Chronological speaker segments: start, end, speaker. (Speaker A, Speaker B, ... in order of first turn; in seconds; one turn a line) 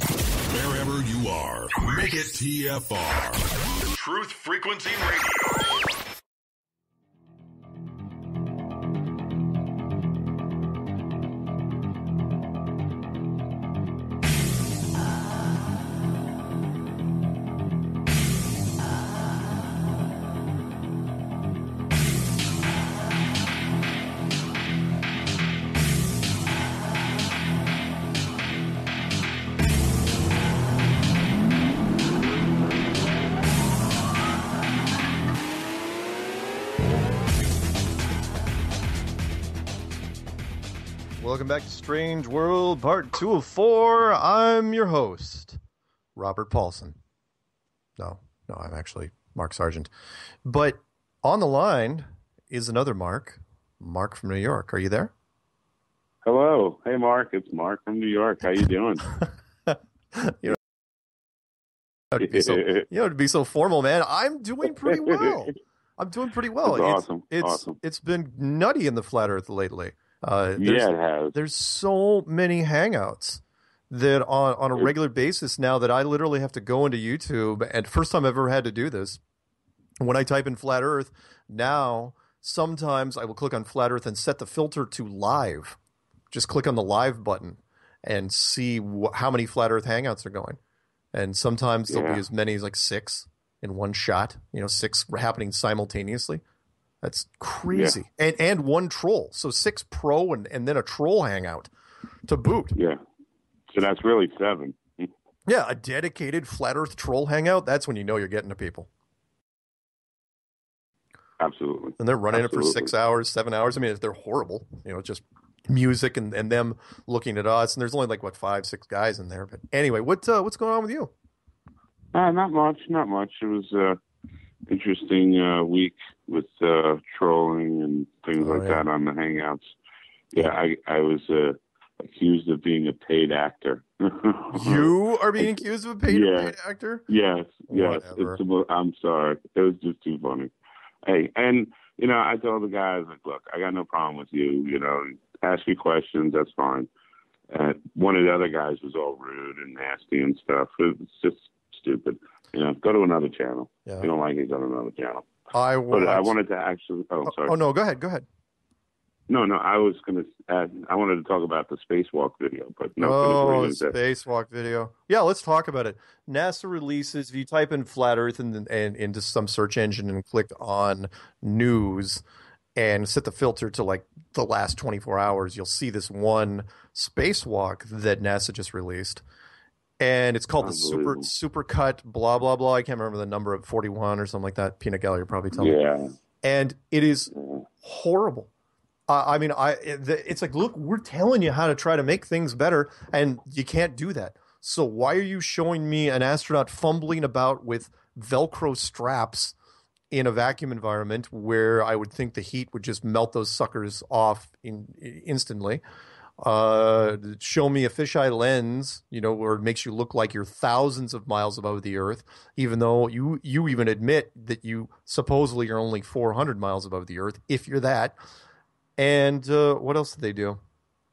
Speaker A: 0.5-5.8
Speaker B: 41.2-45.6
Speaker B: 46.2-47.0
Speaker B: 48.0-49.9
Speaker B: 50.5-55.1
Speaker C: 56.2-59.2
Speaker B: 59.2-60.6
Speaker B: 62.1-79.2
Speaker C: 62.2-62.9
Speaker C: 64.8-65.5
Speaker C: 66.6-67.8
Speaker C: 70.6-71.3
Speaker B: 80.0-85.8
Speaker B: 86.3-90.6
Speaker B: 91.1-96.4
Speaker C: 91.9-92.2
Speaker B: 97.0-101.7
Speaker C: 97.7-98.0
Speaker B: 102.3-102.8
Speaker C: 103.7-105.1
Speaker B: 105.5-108.9
Speaker C: 111.4-112.9
Speaker B: 112.0-121.1
Speaker C: 122.1-124.0
Speaker C: 124.7-129.7
Speaker B: 128.4-128.8
Speaker C: 130.3-135.5
Speaker B: 134.5-137.1
Speaker C: 136.1-136.6
Speaker C: 137.1-140.5
Speaker B: 137.7-138.4
Speaker C: 141.1-146.9
Speaker C: 147.5-155.3
Speaker B: 155.5-156.3
Speaker C: 155.9-157.6
Speaker B: 157.3-158.3
Speaker C: 159.3-164.0
Speaker B: 163.0-172.2
Speaker B: 172.8-179.2
Speaker B: 180.0-185.8
Speaker C: 180.6-181.3
Speaker C: 185.6-186.1
Speaker B: 186.4-188.5
Speaker C: 187.3-187.7
Speaker B: 189.1-199.6
Speaker B: 200.1-205.8
Speaker B: 206.4-218.2
Speaker B: 219.0-220.6